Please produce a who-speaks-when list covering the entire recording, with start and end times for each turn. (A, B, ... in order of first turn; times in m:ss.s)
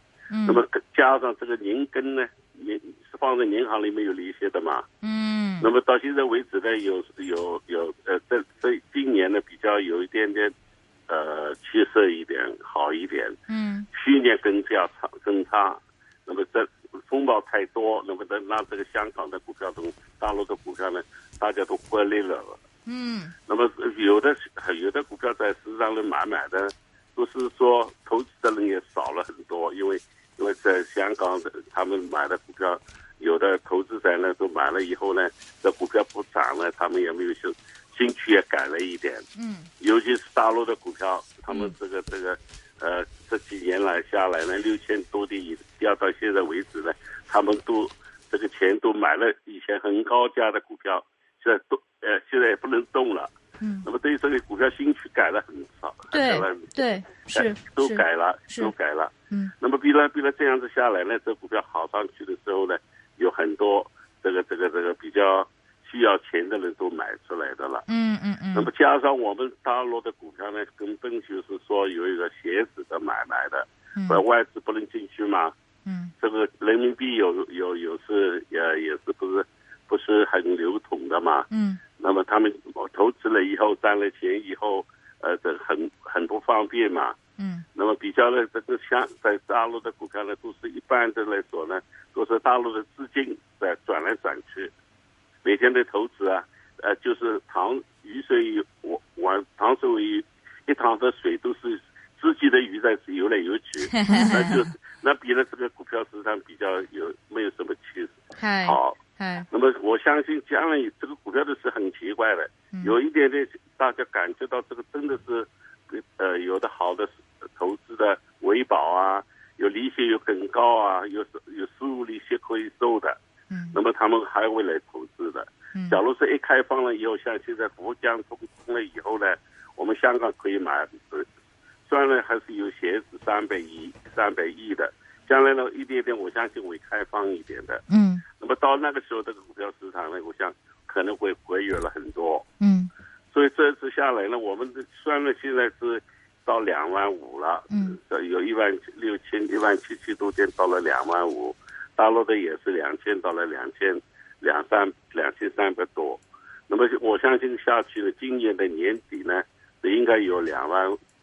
0:00.3-0:00.6 A
0:00.5-0:04.9 B
0:05.0-0:05.7 A
0:05.6-0:10.5 B
0:11.1-0:13.4 B
0:13.5-0:13.9 A
0:13.9-0:22.6 B
0:22.9-0:23.3 A
0:23.5-0:39.3 B
0:39.4-0:39.7 A
0:39.8-0:53.3 B
0:53.6-0:53.9 A
0:53.8-0:56.7 B
0:56.1-0:58.7 A
0:57.3-1:07.8 B
1:07.9-1:08.7 A
1:08.6-1:15.5 B
1:14.0-1:14.2 A
1:15.8-1:16.1 A
1:16.2-1:27.2 B
1:21.5-1:21.8 A
1:27.4-1:27.6 A
1:27.8-1:34.7 B
1:35.4-1:49.0 B
1:43.9-1:44.6 A
1:48.4-1:49.5 A
1:49.5-2:03.2 B
2:03.5-2:03.8 A
2:03.7-2:11.3 B
2:05.7-2:06.0 A
2:11.9-2:22.4 B
2:17.9-2:18.2 A
2:22.6-2:22.9 A
2:23.3-2:41.0 B
2:27.7-2:28.0 A